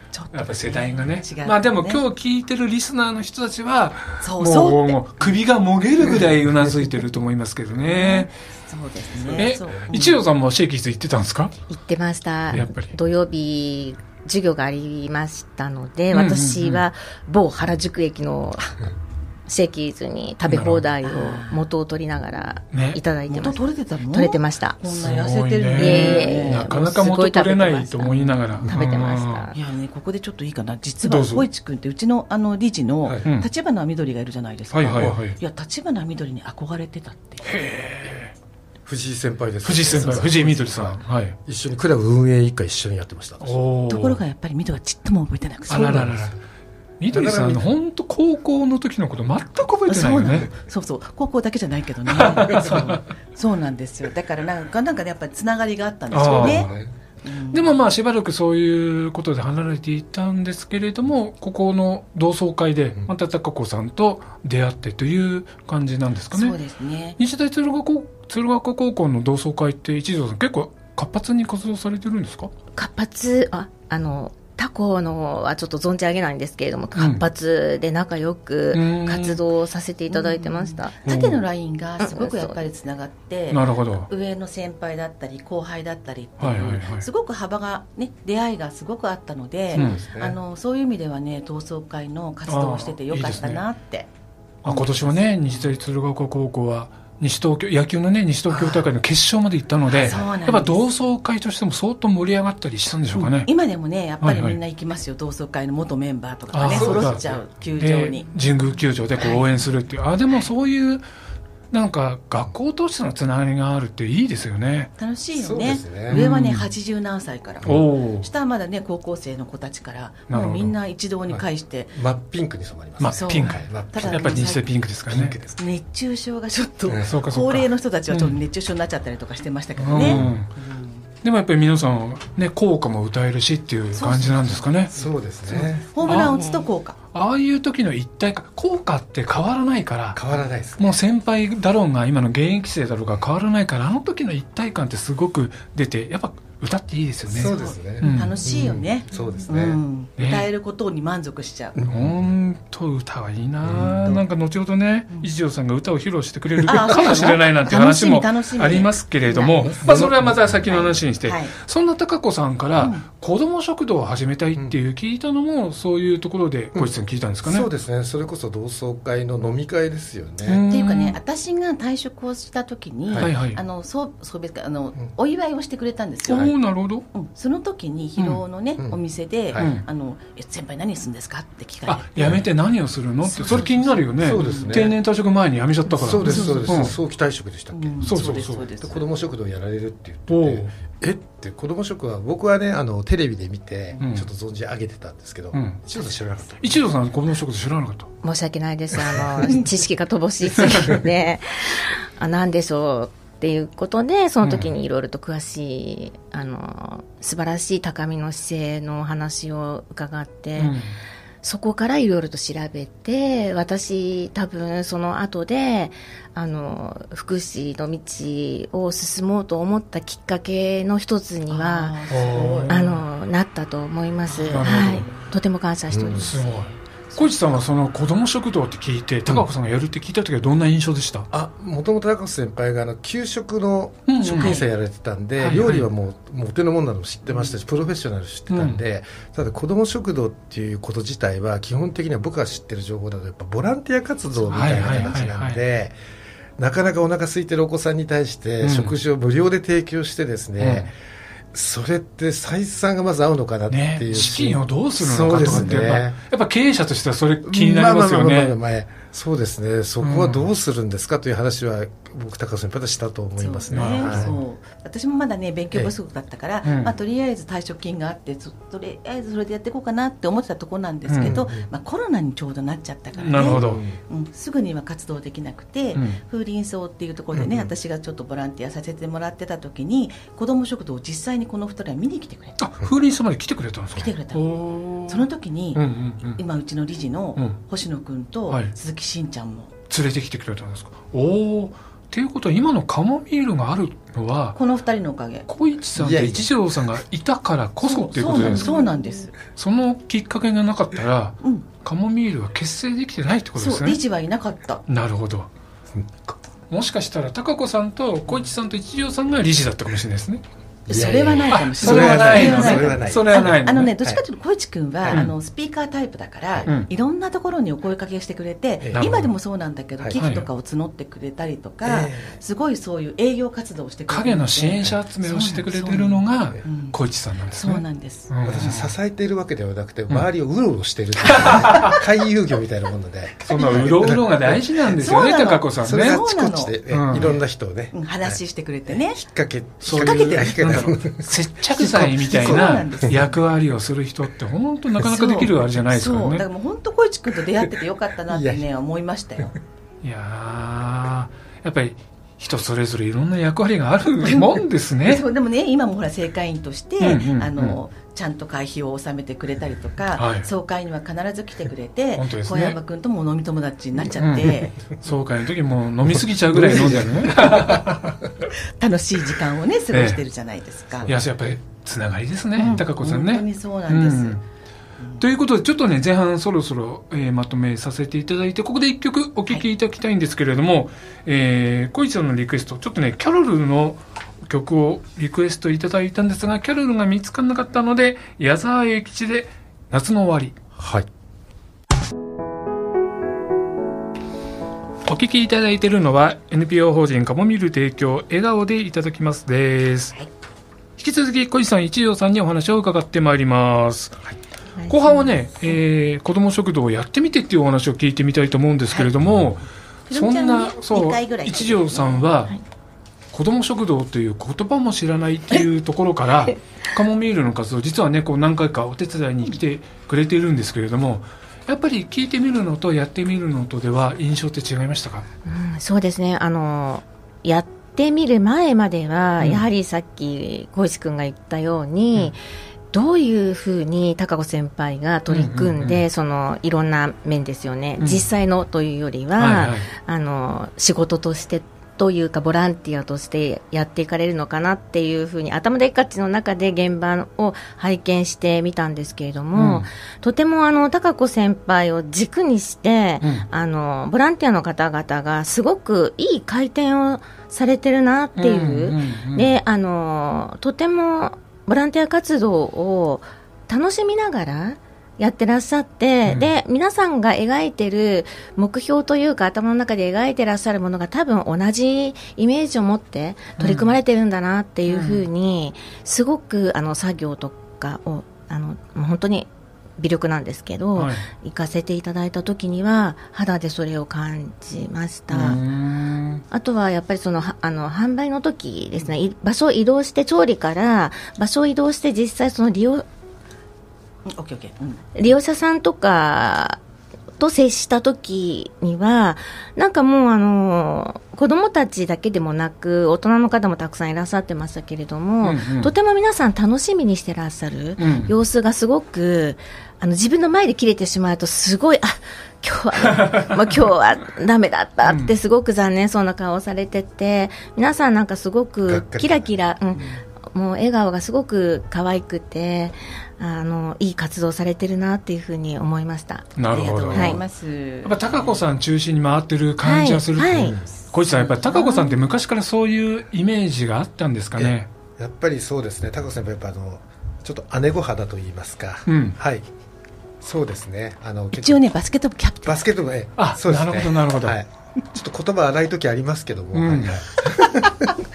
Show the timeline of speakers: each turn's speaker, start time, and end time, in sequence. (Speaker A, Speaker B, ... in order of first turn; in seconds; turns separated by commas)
Speaker A: 0.1-2.0, Speaker B: 0.3-8.3, Speaker A: 4.2-5.3, Speaker A: 7.8-10.2, Speaker C: 9.3-9.8, Speaker B: 9.3-11.5, Speaker D: 11.7-18.9, Speaker B: 12.5-12.9, Speaker B: 16.1-16.9, Speaker D: 19.5-24.8, Speaker B: 20.5-20.8, Speaker A: 21.0-21.6, Speaker B: 22.7-23.0, Speaker A: 23.3-26.7, Speaker B: 24.9-29.5, Speaker D: 25.8-29.6, Speaker A: 29.5-37.5, Speaker B: 31.0-31.5, Speaker B: 34.7-35.4, Speaker B: 37.4-38.3, Speaker C: 38.9-43.6, Speaker B: 39.6-41.4, Speaker B: 43.4-44.2, Speaker A: 43.9-46.1, Speaker B: 45.7-46.3, Speaker C: 45.8-46.3, Speaker B: 47.0-50.5, Speaker C: 47.1-47.7, Speaker A: 49.9-56.7, Speaker B: 52.1-53.0, Speaker B: 56.1-56.8, Speaker C: 56.3-56.9, Speaker A: 57.2-57.7, Speaker B: 57.5-66.6, Speaker A: 66.3-67.2, Speaker B: 67.2-72.5, Speaker D: 72.8-81.0, Speaker B: 77.0-77.2, Speaker B: 78.7-79.4, Speaker A: 80.1-94.1, Speaker B: 81.0-81.4, Speaker D: 82.0-82.6, Speaker B: 83.5-84.1, Speaker B: 86.4-87.1, Speaker C: 89.7-90.4, Speaker B: 89.8-90.0, Speaker B: 92.5-93.6, Speaker B: 94.6-103.5, Speaker A: 94.7-95.7, Speaker C: 98.5-98.8, Speaker A: 99.9-100.8, Speaker A: 103.2-108.3, Speaker B: 104.2-104.6, Speaker B: 106.5-107.2, Speaker C: 106.7-107.4, Speaker B: 107.8-111.0, Speaker A: 109.2-109.6, Speaker B: 111.7-114.9, Speaker A: 115.0-122.0, Speaker C: 115.4-116.2, Speaker B: 116.1-116.7, Speaker B: 117.6-118.3, Speaker B: 120.3-120.7, Speaker C: 121.3-124.5, Speaker B: 123.0-125.4, Speaker A: 123.1-124.7, Speaker C: 125.1-125.6, Speaker A: 125.6-131.0, Speaker B: 127.0-128.4, Speaker B: 129.8-130.5, Speaker C: 129.9-130.4, Speaker B: 131.2-134.9, Speaker A: 133.9-137.0, Speaker C: 134.9-136.2, Speaker B: 135.6-136.4, Speaker B: 137.1-140.2, Speaker C: 140.1-141.0, Speaker B: 140.8-148.5, Speaker C: 147.3-149.8, Speaker A: 147.4-151.8, Speaker B: 150.2-150.5, Speaker C: 151.8-152.3, Speaker B: 151.9-167.7, Speaker C: 153.7-154.1, Speaker A: 156.7-159.7, Speaker C: 159.7-161.0, Speaker A: 160.7-161.5, Speaker A: 162.8-163.1, Speaker C: 167.4-170.6, Speaker B: 170.4-171.2, Speaker A: 170.7-176.5, Speaker B: 173.2-173.6, Speaker B: 176.3-177.1, Speaker A: 177.1-182.4, Speaker B: 179.6-179.8, Speaker B: 181.9-186.9, Speaker A: 183.2-184.9, Speaker C: 184.2-185.0, Speaker C: 186.0-196.8, Speaker A: 186.1-186.9, Speaker A: 187.7-189.0, Speaker B: 188.0-188.6, Speaker B: 190.3-190.7, Speaker B: 194.0-194.3, Speaker B: 195.5-195.8, Speaker B: 196.6-198.1, Speaker D: 198.2-210.8, Speaker B: 200.6-201.0, Speaker B: 204.4-204.7, Speaker B: 210.6-210.9, Speaker D: 211.4-222.0, Speaker A: 221.5-222.8, Speaker B: 222.1-223.0, Speaker D: 222.7-226.5, Speaker A: 224.3-225.2, Speaker B: 224.4-225.1, Speaker C: 225.9-226.3, Speaker B: 226.2-231.3, Speaker A: 226.4-227.3, Speaker C: 231.3-246.0, Speaker B: 234.1-234.6, Speaker A: 234.3-234.7, Speaker B: 235.4-235.9, Speaker B: 238.5-238.8, Speaker B: 244.5-245.6, Speaker A: 244.5-244.9, Speaker C: 246.6-250.9, Speaker B: 248.6-248.9, Speaker B: 250.6-250.9, Speaker C: 251.5-256.2, Speaker B: 253.7-258.6, Speaker C: 257.4-264.4, Speaker B: 260.0-260.5, Speaker A: 263.4-282.6, Speaker B: 263.7-264.3, Speaker B: 266.6-266.9, Speaker B: 271.1-271.4, Speaker C: 271.2-271.7, Speaker B: 273.2-273.8, Speaker C: 273.4-274.0, Speaker C: 277.4-277.7, Speaker B: 282.6-286.4, Speaker A: 284.0-284.4, Speaker A: 285.1-285.8, Speaker A: 286.4-289.7, Speaker B: 289.9-294.6, Speaker A: 294.6-295.5, Speaker B: 295.5-298.8, Speaker C: 296.0-296.5, Speaker A: 297.8-299.4, Speaker B: 299.5-304.0, Speaker A: 303.6-304.8, Speaker B: 304.9-305.5, Speaker C: 305.9-306.4, Speaker B: 306.7-310.4, Speaker C: 310.9-314.2, Speaker A: 310.9-327.0, Speaker B: 311.5-313.9, Speaker C: 315.0-315.3, Speaker C: 318.8-319.1, Speaker B: 318.9-319.3, Speaker B: 320.1-320.5, Speaker C: 321.8-322.4, Speaker B: 324.1-328.9, Speaker A: 327.5-328.6, Speaker C: 328.4-334.9, Speaker B: 331.2-332.0, Speaker A: 331.4-332.0, Speaker B: 333.5-336.2, Speaker A: 335.0-337.4, Speaker C: 335.8-341.3, Speaker B: 336.9-337.3, Speaker A: 337.9-339.2, Speaker A: 339.8-340.9, Speaker B: 339.8-346.4, Speaker A: 341.8-343.4, Speaker C: 342.3-343.2, Speaker A: 345.0-349.6, Speaker C: 348.3-348.6, Speaker B: 350.0-355.2, Speaker A: 354.2-364.8, Speaker B: 357.0-357.8, Speaker B: 360.2-360.5, Speaker B: 362.2-362.8, Speaker B: 364.1-368.2, Speaker C: 366.1-368.1, Speaker A: 368.8-371.1, Speaker B: 369.9-370.2, Speaker B: 371.1-374.4, Speaker A: 372.6-374.4, Speaker B: 375.2-390.6, Speaker C: 390.8-391.1, Speaker B: 395.1-400.1, Speaker B: 401.0-404.2, Speaker D: 404.8-405.8, Speaker B: 404.9-412.6, Speaker A: 410.1-412.3, Speaker B: 413.3-425.3, Speaker D: 425.4-432.4, Speaker B: 429.4-429.7, Speaker D: 432.9-485.6, Speaker B: 435.3-436.0, Speaker B: 438.0-438.2, Speaker B: 439.4-439.9, Speaker B: 449.5-449.9, Speaker B: 453.2-453.5, Speaker B: 458.4-459.6, Speaker B: 473.6-473.9, Speaker B: 474.9-475.3, Speaker B: 481.0-481.2, Speaker B: 485.3-486.4, Speaker D: 486.5-493.1, Speaker A: 494.3-495.1, Speaker D: 495.2-496.8, Speaker D: 497.4-526.5, Speaker B: 505.4-505.9, Speaker B: 508.0-508.3, Speaker B: 515.0-515.4, Speaker C: 518.9-519.5, Speaker B: 526.6-527.4, Speaker A: 526.7-528.6, Speaker D: 527.1-527.4, Speaker B: 528.0-534.9, Speaker D: 529.8-530.8, Speaker C: 530.5-530.9, Speaker A: 531.3-531.9, Speaker D: 531.7-532.2, Speaker C: 534.6-539.6, Speaker B: 539.1-539.4, Speaker C: 540.4-541.8, Speaker A: 541.6-542.8, Speaker C: 542.7-548.1, Speaker B: 543.4-544.6, Speaker B: 546.7-547.2